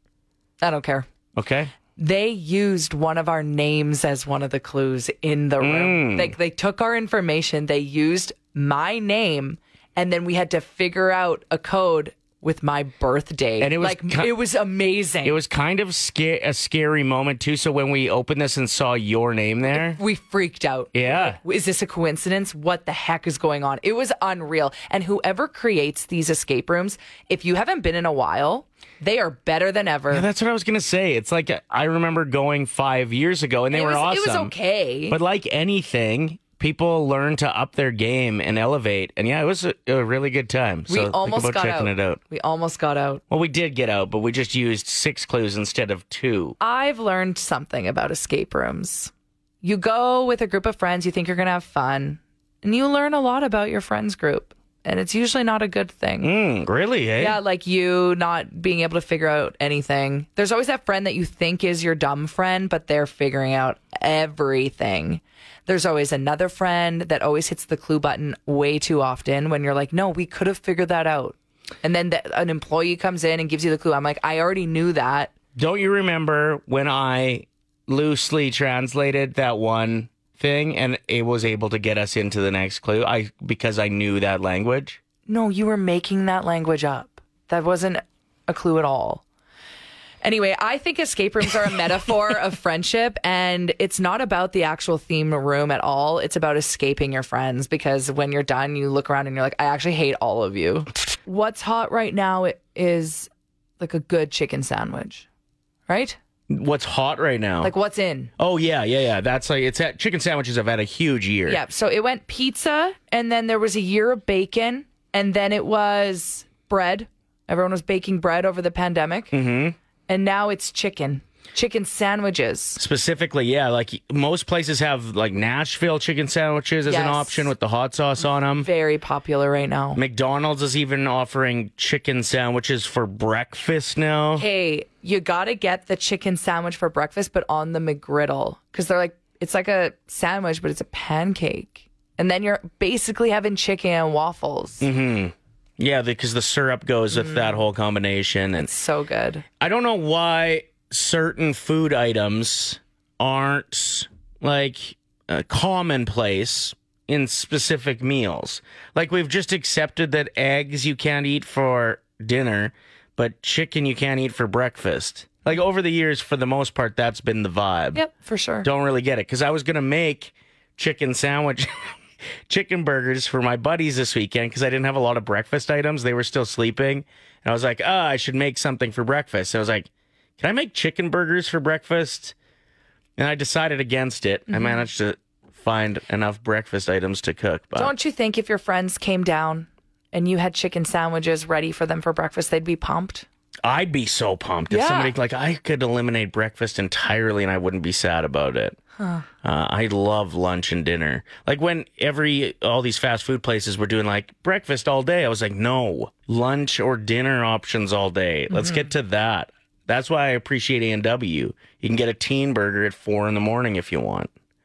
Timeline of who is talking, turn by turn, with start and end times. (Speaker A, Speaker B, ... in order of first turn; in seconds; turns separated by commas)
Speaker A: 0.6-1.1, Speaker B: 1.4-1.7, Speaker A: 1.9-15.4, Speaker B: 5.6-6.3, Speaker B: 13.6-14.3, Speaker B: 15.2-20.0, Speaker A: 19.7-30.3, Speaker B: 20.9-21.4, Speaker B: 30.1-34.5, Speaker A: 33.7-35.2, Speaker B: 35.1-42.2, Speaker A: 40.9-43.2, Speaker B: 43.3-46.5, Speaker A: 46.6-56.4, Speaker B: 56.2-57.4, Speaker A: 57.2-75.3, Speaker B: 75.5-85.0, Speaker A: 85.3-89.2, Speaker A: 90.2-105.2, Speaker A: 105.9-106.2, Speaker B: 106.5-107.7, Speaker A: 107.6-108.3, Speaker B: 108.4-111.6, Speaker A: 111.5-119.3, Speaker B: 119.3-119.8, Speaker A: 120.1-122.8, Speaker B: 122.8-128.7, Speaker A: 126.8-127.5, Speaker A: 128.5-130.0, Speaker B: 129.9-134.4, Speaker A: 134.4-144.9, Speaker B: 144.8-148.7, Speaker A: 147.2-147.5, Speaker A: 148.5-149.4, Speaker B: 149.6-168.0, Speaker A: 167.9-168.7, Speaker B: 168.6-171.7, Speaker B: 172.5-179.9, Speaker B: 180.4-182.3, Speaker B: 183.2-187.9, Speaker A: 187.8-193.2, Speaker B: 193.6-198.8, Speaker A: 194.7-195.1, Speaker A: 199.0-199.2, Speaker B: 199.4-214.3